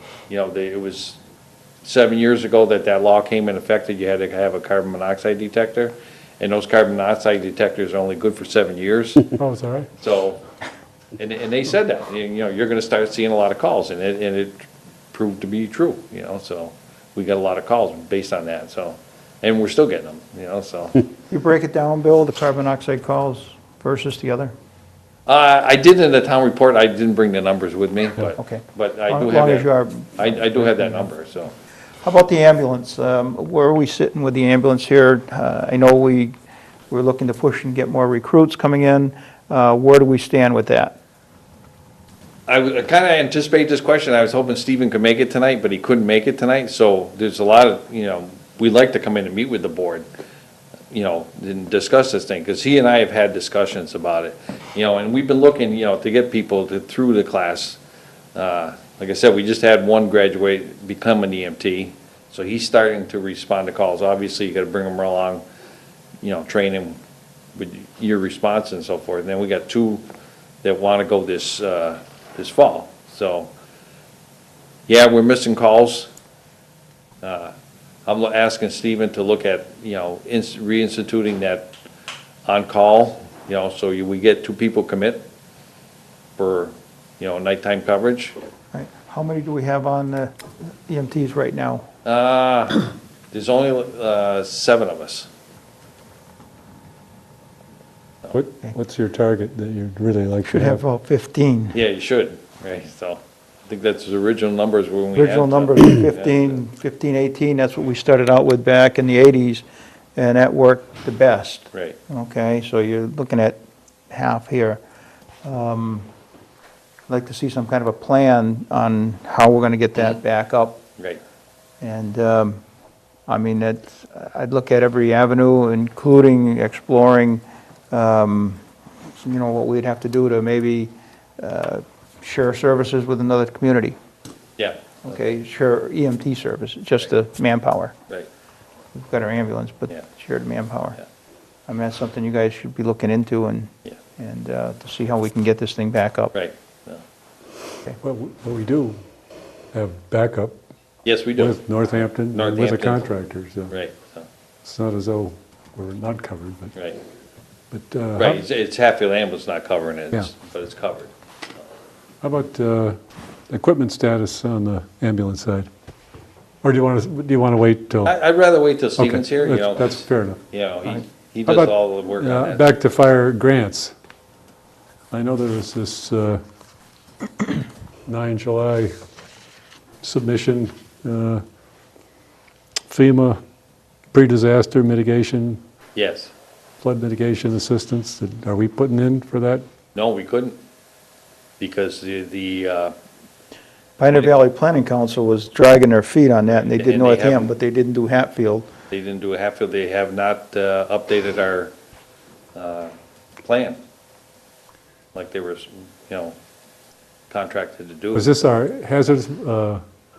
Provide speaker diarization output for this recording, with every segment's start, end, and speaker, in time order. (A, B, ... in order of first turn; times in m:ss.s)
0:00.3-0:01.2 A
0:01.8-0:09.2 A
0:09.4-0:09.9 B
0:10.0-0:10.4 A
0:11.2-0:21.0 A
0:21.3-0:24.5 C
0:25.2-0:31.5 A
0:28.4-0:31.1 C
0:32.0-0:36.3 C
0:36.9-0:41.0 C
0:42.5-0:50.0 A
0:50.9-0:57.8 A
0:58.3-1:05.4 A
1:06.2-1:07.0 A
1:07.6-1:10.0 A
1:10.6-1:13.5 A
1:14.9-1:16.1 A
1:17.2-1:17.5 A
1:18.0-1:21.7 A
1:22.4-1:25.2 A
1:26.4-1:28.3 A
1:28.7-1:31.9 C
1:32.0-1:35.3 A
1:38.3-1:40.8 B
1:40.5-1:41.8 C
1:41.7-1:46.6 A
1:45.1-1:49.6 C
1:50.2-1:54.8 C
1:51.7-1:52.0 A
1:55.4-1:56.1 C
1:57.1-2:00.8 C
2:01.8-2:02.6 C
2:03.3-2:08.6 C
2:09.2-2:14.0 C
2:14.6-2:15.3 A
2:15.0-2:17.9 C
2:18.9-2:21.0 C
2:21.7-2:26.3 C
2:26.3-2:27.0 A
2:28.0-2:29.0 B
2:29.7-2:30.6 B
2:31.0-2:31.6 A
2:31.4-2:33.7 B
2:32.3-2:33.1 A
2:33.7-2:34.2 A
2:34.6-2:36.7 B
2:36.7-2:37.0 A
2:37.7-2:38.4 B
2:38.2-2:41.1 A
2:42.2-2:43.0 B
2:43.5-2:45.7 B
2:46.6-2:48.1 B
2:48.0-2:52.6 A
2:49.0-2:50.4 B
2:51.5-2:53.9 B
2:55.1-2:56.4 B
2:58.0-2:58.9 B
3:00.0-3:01.4 B
3:02.9-3:03.4 B
3:04.1-3:05.6 B
3:05.9-3:06.3 A
3:06.8-3:09.6 B
3:09.9-3:10.6 A
3:11.6-3:12.9 A
3:14.0-3:18.7 C
3:16.5-3:17.5 A
3:18.9-3:21.7 A
3:22.5-3:22.9 A
3:23.4-3:23.8 A
3:25.1-3:26.4 A
3:27.3-3:28.3 A
3:28.1-3:29.8 B